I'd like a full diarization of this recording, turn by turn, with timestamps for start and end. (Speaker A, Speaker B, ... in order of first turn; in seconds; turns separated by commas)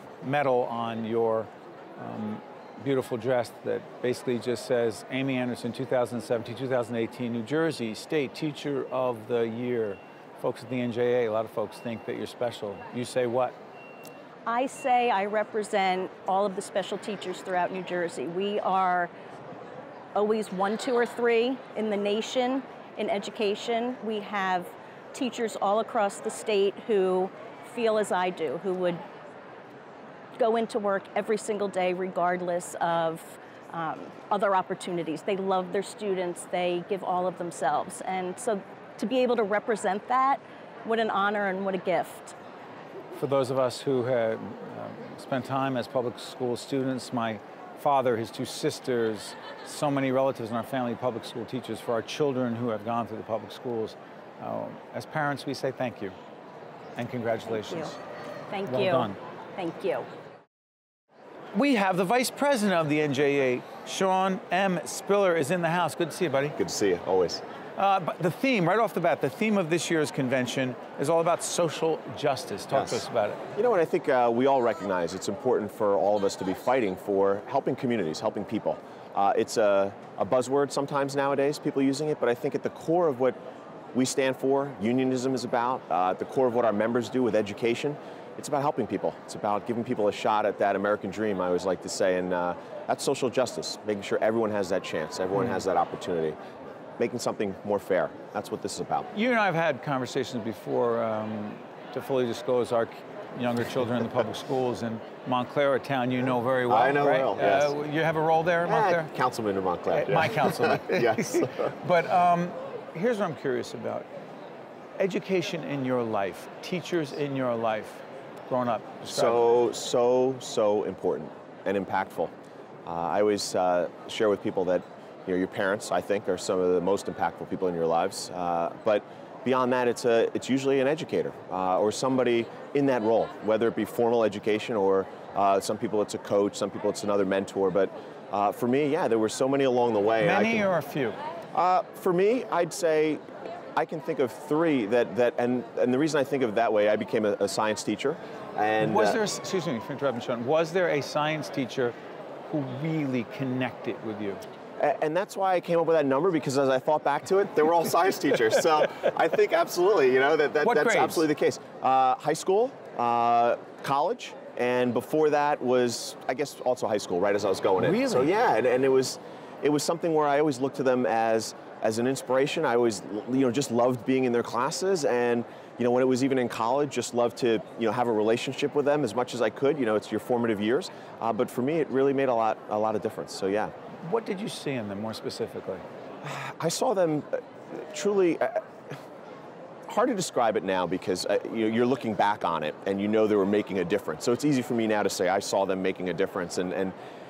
Speaker A: 0.2-13.6, Speaker B: 14.4-19.1, Speaker B: 20.1-29.0, Speaker B: 30.4-42.4, Speaker A: 43.1-56.1, Speaker A: 57.0-58.0, Speaker B: 57.5-57.9, Speaker B: 58.5-60.1, Speaker A: 58.7-59.2, Speaker A: 61.5-66.6, Speaker C: 66.6-67.4, Speaker A: 67.8-73.4, Speaker C: 72.7-73.0, Speaker C: 73.6-83.4, Speaker C: 83.9-96.4, Speaker C: 97.0-99.1, Speaker A: 99.1-109.1, Speaker C: 106.7-107.7, Speaker C: 108.7-111.7, Speaker A: 109.9-114.1, Speaker A: 115.0-119.4, Speaker C: 119.1-122.3, Speaker C: 122.9-140.7, Speaker A: 140.2-141.2, Speaker C: 141.5-143.2, Speaker C: 143.8-149.2, Speaker A: 148.8-151.9, Speaker A: 152.5-154.4, Speaker C: 154.8-183.7, Speaker A: 160.6-161.3, Speaker A: 167.8-168.3, Speaker A: 184.0-185.8, Speaker C: 186.2-188.9, Speaker C: 189.9-196.9